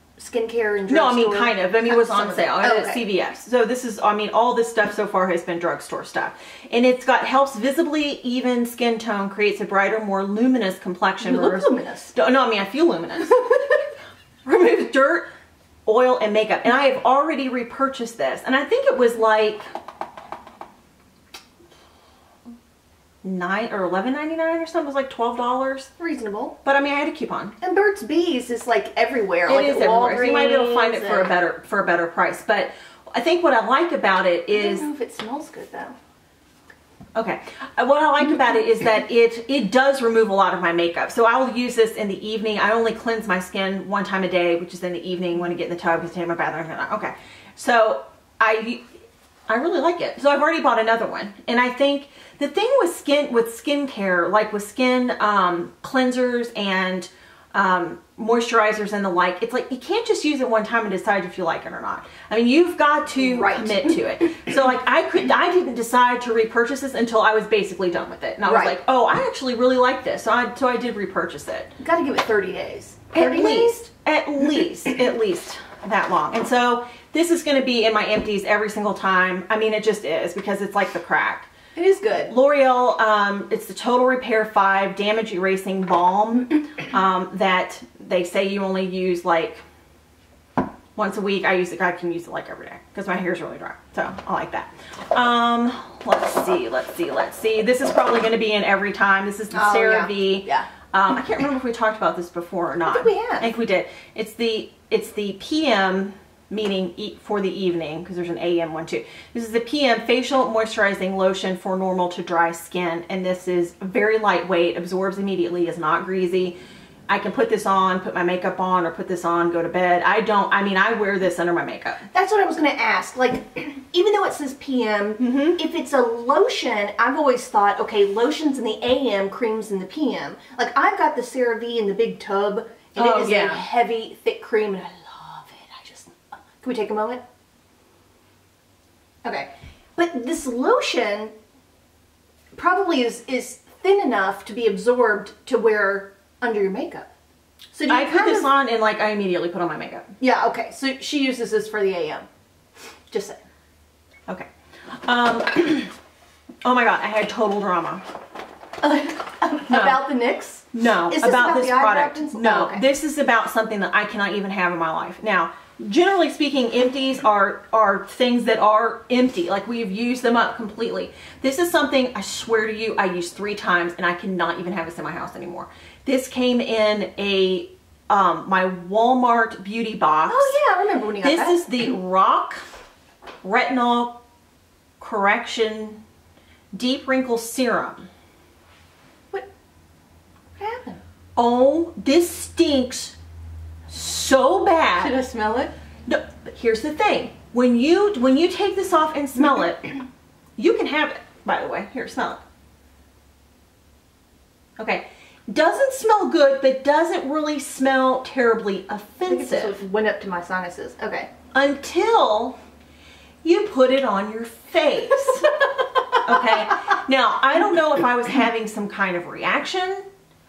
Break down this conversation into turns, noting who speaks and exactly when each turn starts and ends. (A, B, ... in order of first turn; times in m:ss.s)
0:00.2-0:03.0 A
0:00.9-0:13.5 B
0:11.2-0:12.1 A
0:14.4-0:15.3 B
0:15.9-0:19.6 B
0:23.2-0:25.9 B
0:26.0-0:26.6 A
0:26.6-0:27.6 B
0:27.6-0:31.4 A
0:29.5-0:34.9 B
0:34.5-0:36.0 A
0:37.2-0:48.8 B
0:49.5-1:11.7 B
1:03.2-1:04.0 A
1:08.4-1:08.8 A
1:11.8-1:13.9 A
1:13.1-1:21.5 B
1:21.8-1:22.3 A
1:22.3-1:29.6 B
1:31.0-1:56.6 B
1:39.5-1:40.7 A
1:42.8-1:43.5 A
1:57.1-2:02.0 B
2:02.1-2:17.2 A
2:05.2-2:05.6 B
2:13.0-2:13.6 B
2:19.2-2:21.3 A
2:22.5-2:27.1 A
2:27.7-2:28.5 A
2:27.9-2:30.1 B
2:30.2-2:32.3 A
2:33.1-2:33.4 A
2:35.0-2:35.9 B
2:36.6-2:38.0 B
2:38.8-2:42.8 A
2:39.7-2:40.0 B
2:40.7-3:00.6 B
3:00.3-3:01.8 A
3:01.2-3:02.6 B
3:03.4-3:04.2 B
3:05.0-3:06.0 B
3:06.7-3:08.1 B
3:10.6-3:11.0 A
3:11.4-3:13.2 B
3:13.9-3:15.2 B
3:15.0-3:15.7 A
3:16.1-3:20.0 B
3:20.6-3:22.4 B
3:24.8-3:29.8 B
3:29.2-3:31.3 A
3:31.5-3:32.6 B
3:33.4-3:35.6 B
3:36.2-3:40.1 B